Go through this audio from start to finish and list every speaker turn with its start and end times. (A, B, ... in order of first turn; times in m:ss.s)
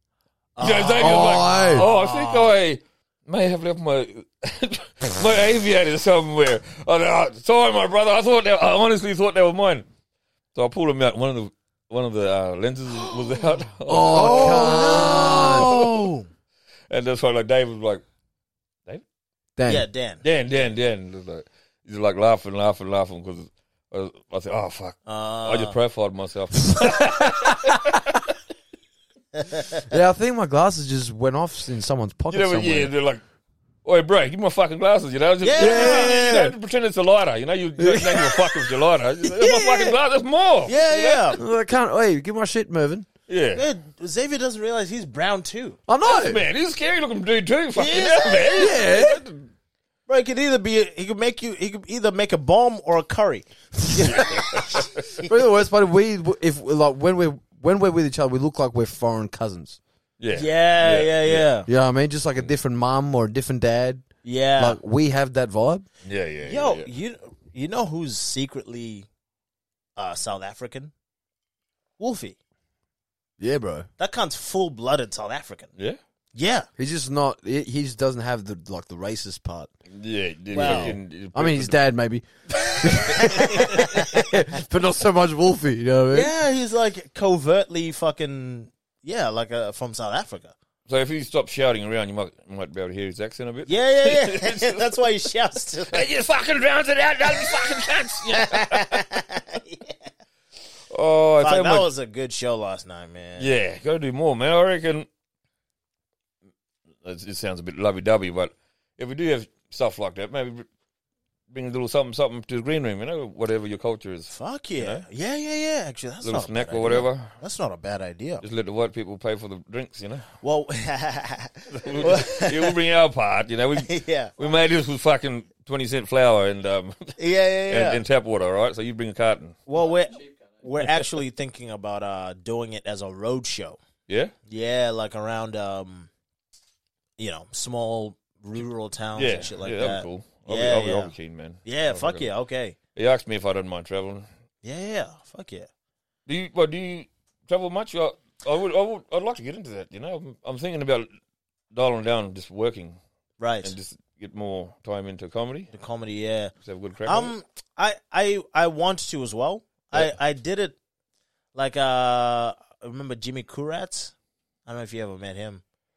0:00.6-0:02.5 A
0:00.6-0:09.9 B
0:01.0-0:01.9 C
0:10.5-0:15.9 B
0:13.9-0:15.9 C
0:14.1-0:16.3 A
0:16.9-0:18.0 B
0:19.6-0:19.9 C
0:19.7-0:20.2 A
0:20.2-0:28.2 B
0:25.0-0:25.7 A
0:26.8-0:27.7 C
0:29.4-0:29.8 A
0:29.9-0:32.9 C
0:32.3-0:33.2 B
0:33.8-0:41.3 B
0:35.4-0:36.2 A
0:35.6-0:36.6 C
0:37.8-0:38.6 C
0:39.3-0:39.9 C
0:40.7-0:41.4 A
0:41.4-0:43.1 C
0:43.3-0:43.6 B
0:43.6-0:45.8 A
0:45.9-0:46.4 C
0:46.0-0:49.5 B
0:47.8-0:48.8 A
0:48.6-0:49.2 C
0:50.1-0:55.3 A
0:54.0-0:55.0 B
0:55.2-0:59.8 C
1:00.2-1:01.5 B
1:00.3-1:01.7 A
1:01.7-1:04.0 C
1:04.2-1:04.8 A
1:04.6-1:05.8 C
1:06.0-1:06.9 B
1:06.4-1:09.1 A
1:10.0-1:10.9 A
1:12.0-1:12.4 A
1:13.4-1:13.9 C
1:14.0-1:15.7 A
1:16.3-1:16.7 A
1:16.8-1:19.7 C
1:19.9-1:21.8 B
1:20.5-1:21.0 A
1:20.6-1:26.3 C
1:23.1-1:23.7 B
1:23.2-1:24.3 A
1:26.1-1:30.5 A
1:30.9-1:34.8 B
1:33.6-1:36.1 A
1:35.9-1:39.0 B
1:38.3-1:40.0 A
1:40.9-1:41.9 B
1:41.4-1:43.5 A
1:43.4-1:45.1 B
1:47.0-1:50.6 B
1:51.5-1:55.0 B
1:54.3-1:58.4 A
1:56.2-1:57.3 B
1:58.4-2:00.3 B
2:00.4-2:02.7 A
2:01.7-2:07.2 B
2:03.8-2:04.3 A
2:07.2-2:08.0 A
2:07.7-2:09.6 B
2:09.7-2:13.8 A
2:14.1-2:14.3 B
2:14.5-2:16.1 A
2:17.2-2:21.1 A
2:19.2-2:22.3 B
2:21.6-2:22.8 A
2:22.9-2:24.3 B
2:24.6-2:25.7 A
2:26.3-2:31.1 B
2:31.7-2:33.0 B
2:33.4-2:33.7 A
2:33.6-2:35.7 B
2:35.7-2:36.5 A
2:36.6-2:37.3 B
2:37.0-2:40.8 A
2:41.6-2:44.1 A
2:44.6-2:45.6 A